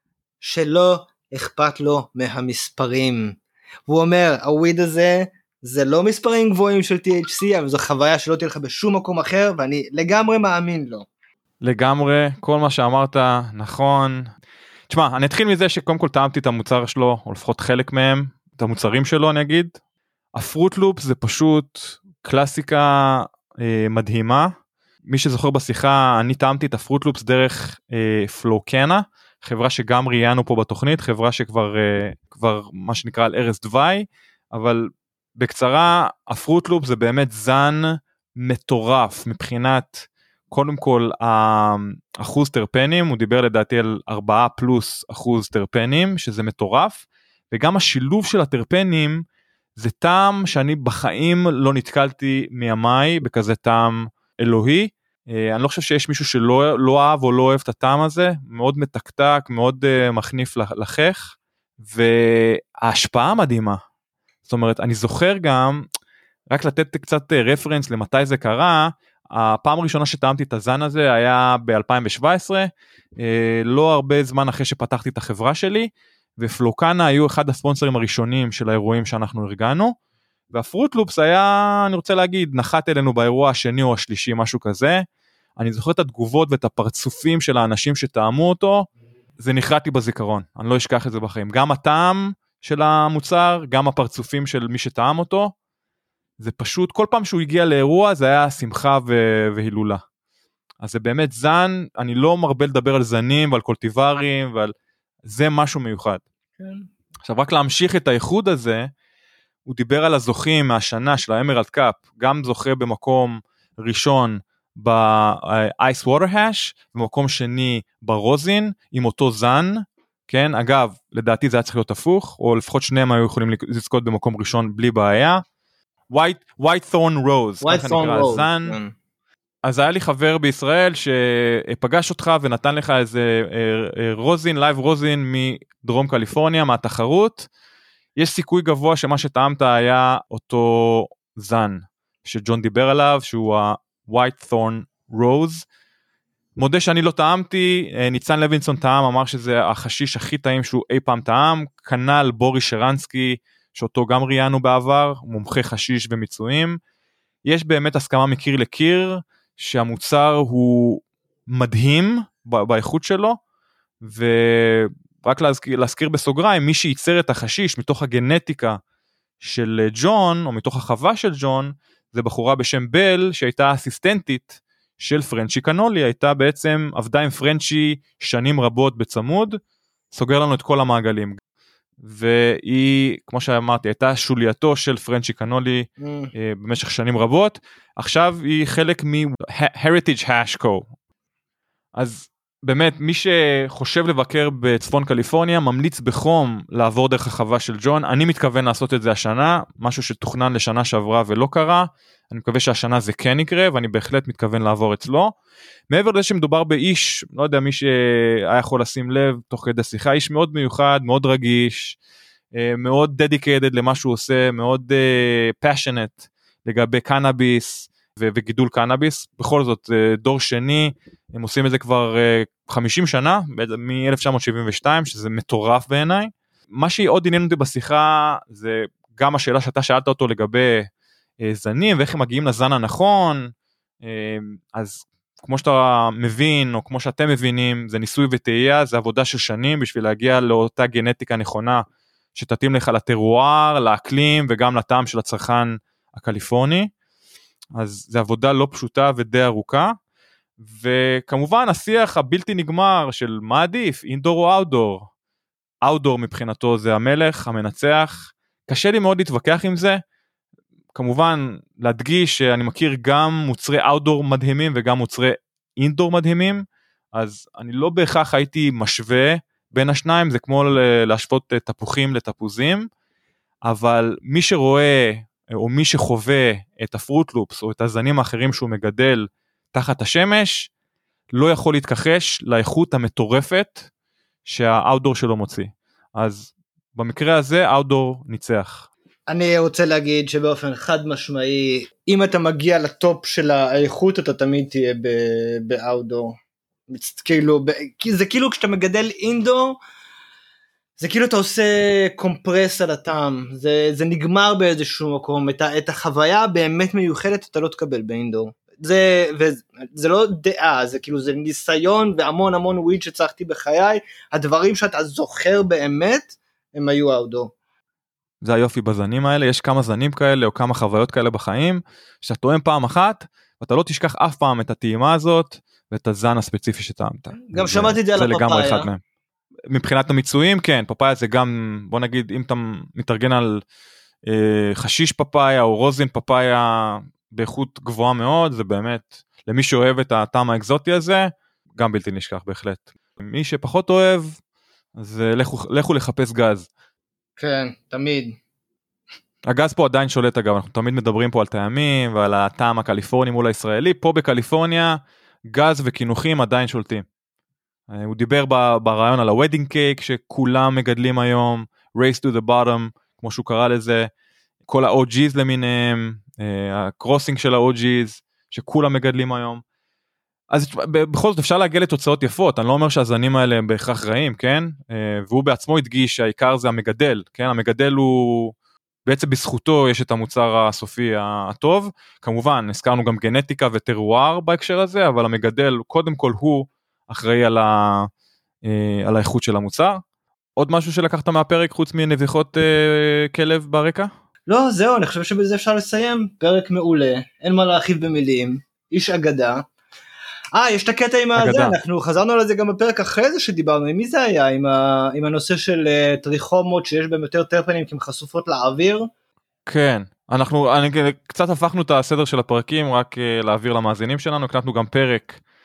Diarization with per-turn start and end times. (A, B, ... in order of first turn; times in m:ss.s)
0:00.4-0:03.4 A
0:03.9-0:11.0 A
0:11.6-0:14.3 B
0:14.9-0:19.8 B
0:20.3-0:24.5 B
0:25.1-0:49.2 B
0:49.8-1:03.8 B
1:04.4-1:05.9 B
1:06.5-1:19.9 B
1:20.5-1:25.0 B
1:25.6-1:28.9 B
1:29.4-1:35.5 B
1:36.4-1:40.0 B
1:40.8-1:44.7 B
1:45.2-1:46.2 B
1:46.6-1:46.9 A
1:47.2-1:48.9 B
1:49.6-2:05.4 B
2:06.1-2:08.8 B
2:07.6-2:08.9 A
2:09.6-2:17.5 B
2:18.2-2:25.6 B
2:26.6-2:36.8 B
2:37.4-2:43.4 B
2:44.0-2:48.8 B
2:49.4-2:59.6 B
3:00.1-3:01.4 B
3:02.0-3:10.9 B
3:06.0-3:06.3 A
3:11.9-3:25.3 B
3:25.9-3:32.0 B
3:32.5-3:50.9 B
3:51.4-4:01.8 B
4:02.3-4:06.9 B
4:07.7-4:09.9 B
4:10.6-4:15.1 B
4:15.8-4:20.0 B
4:20.9-4:32.9 B
4:33.6-4:40.7 B
4:41.3-4:43.9 B
4:44.4-4:48.9 B
4:49.3-4:56.4 A
4:56.9-4:59.8 A
5:01.0-5:17.5 A
5:18.4-5:29.0 B
5:27.5-5:28.9 A
5:29.7-5:33.6 B
5:34.2-5:44.4 B
5:45.0-5:46.7 B
5:47.4-5:48.3 A
5:49.4-5:55.0 B
5:55.5-5:57.0 B
5:57.9-6:04.1 B
6:04.7-6:09.6 B
6:10.5-6:18.5 B
6:19.0-6:28.1 B
6:28.6-6:30.0 B
6:30.6-6:34.1 B
6:34.5-6:39.6 A
6:40.5-6:49.1 A
6:41.4-6:41.8 B
6:49.7-6:55.4 B